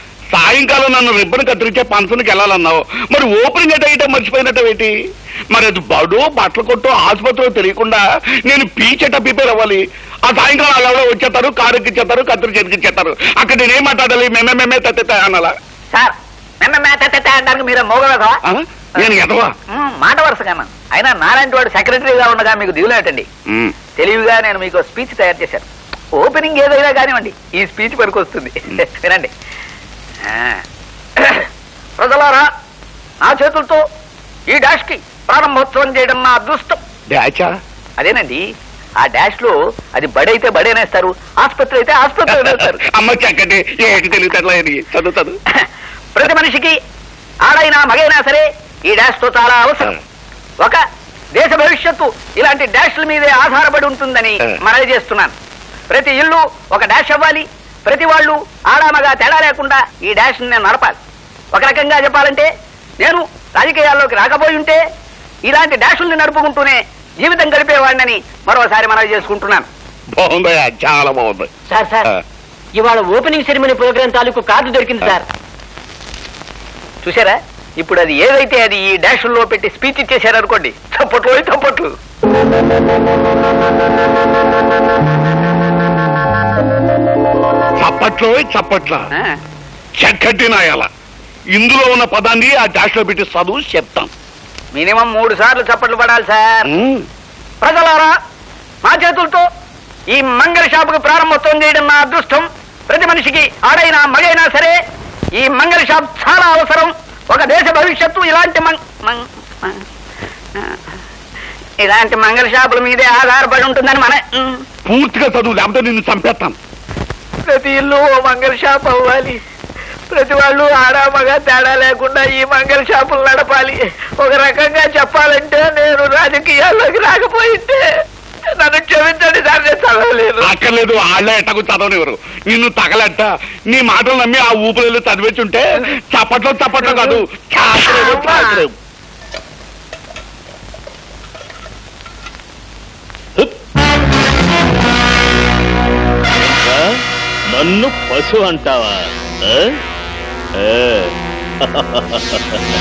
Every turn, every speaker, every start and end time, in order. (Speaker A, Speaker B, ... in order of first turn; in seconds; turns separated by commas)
Speaker A: 0.3-4.9, Speaker A: 5.5-15.6, Speaker B: 15.9-18.4, Speaker A: 18.5-19.5, Speaker B: 19.7-23.3, Speaker A: 23.5-23.7, Speaker B: 24.0-25.6, Speaker B: 26.2-29.3, Speaker B: 30.3-30.6, Speaker B: 31.2-31.5, Speaker B: 32.0-32.5, Speaker B: 33.2-33.8, Speaker B: 34.5-36.8, Speaker A: 37.1-37.5, Speaker B: 38.0-38.4, Speaker B: 39.0-42.8, Speaker A: 42.3-45.4, Speaker B: 46.2-46.8, Speaker B: 47.5-50.0, Speaker B: 51.4-55.3, Speaker B: 55.9-61.0, Speaker B: 61.5-62.5, Speaker B: 63.0-64.8, Speaker B: 65.5-69.7, Speaker A: 70.1-71.5, Speaker C: 71.7-72.1, Speaker C: 72.8-75.2, Speaker B: 77.0-81.9, Speaker A: 87.8-89.1, Speaker A: 90.0-90.9, Speaker A: 91.5-94.1, Speaker B: 94.7-96.7, Speaker A: 96.7-97.0, Speaker B: 97.6-98.1, Speaker B: 98.8-99.5, Speaker B: 100.1-104.8, Speaker B: 105.4-109.8, Speaker B: 111.8-114.6, Speaker A: 114.9-116.6, Speaker B: 117.5-119.4, Speaker B: 120.1-127.8, Speaker B: 128.6-130.6, Speaker A: 130.4-138.7, Speaker B: 136.8-137.2, Speaker B: 137.8-138.6, Speaker D: 146.4-146.9, Speaker D: 147.5-149.7, Speaker D: 150.6-151.1, Speaker D: 151.7-152.0